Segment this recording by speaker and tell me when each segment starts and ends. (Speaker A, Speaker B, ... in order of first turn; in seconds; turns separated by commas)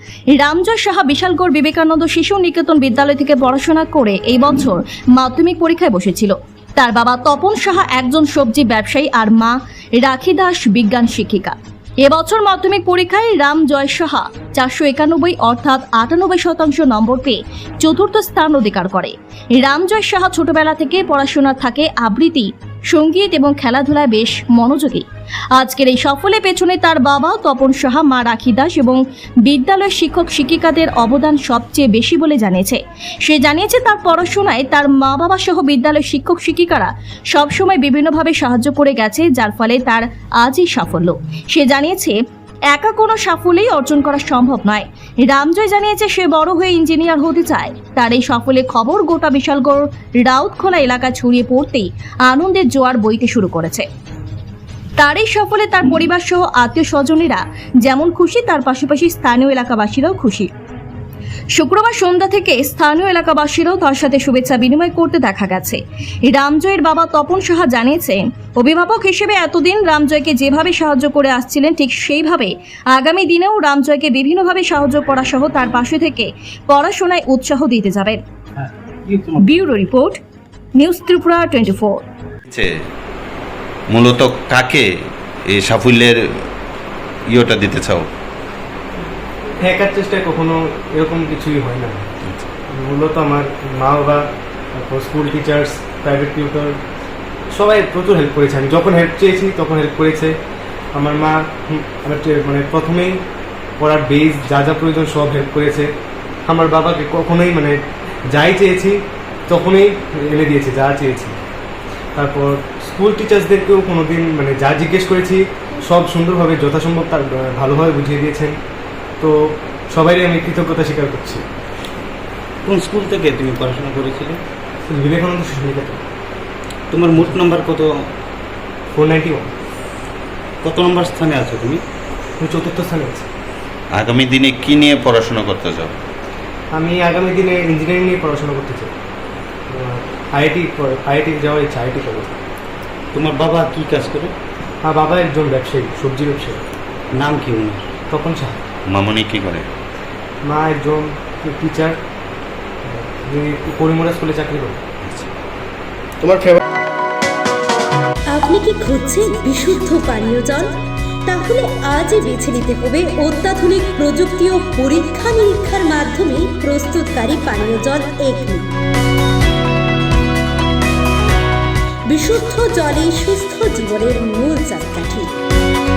Speaker A: 0.3-42.1, Speaker A: 42.7-53.9, Speaker A: 55.0-60.5, Speaker A: 61.5-78.2, Speaker B: 78.7-79.3, Speaker A: 79.4-80.2, Speaker A: 80.8-82.0, Speaker C: 83.9-84.9, Speaker C: 85.5-86.2, Speaker C: 87.3-88.1, Speaker D: 89.6-92.0, Speaker D: 92.7-96.8, Speaker D: 97.5-100.3, Speaker D: 100.9-103.2, Speaker D: 103.8-105.9, Speaker D: 106.5-111.3, Speaker D: 112.2-118.6, Speaker D: 119.2-121.4, Speaker B: 122.6-124.4, Speaker D: 124.9-126.0, Speaker B: 126.9-127.9, Speaker D: 128.9-129.5, Speaker B: 130.6-131.8, Speaker D: 132.4-133.2, Speaker C: 133.9-135.9, Speaker D: 136.7-138.9, Speaker D: 139.7-142.3, Speaker B: 143.1-144.3, Speaker D: 144.8-146.6, Speaker B: 147.1-147.8, Speaker D: 148.1-148.6, Speaker C: 148.9-149.7, Speaker D: 150.4-152.0, Speaker D: 152.8-154.8, Speaker C: 155.0-155.3, Speaker E: 158.3-160.7, Speaker E: 161.2-168.7, Speaker E: 172.1-175.3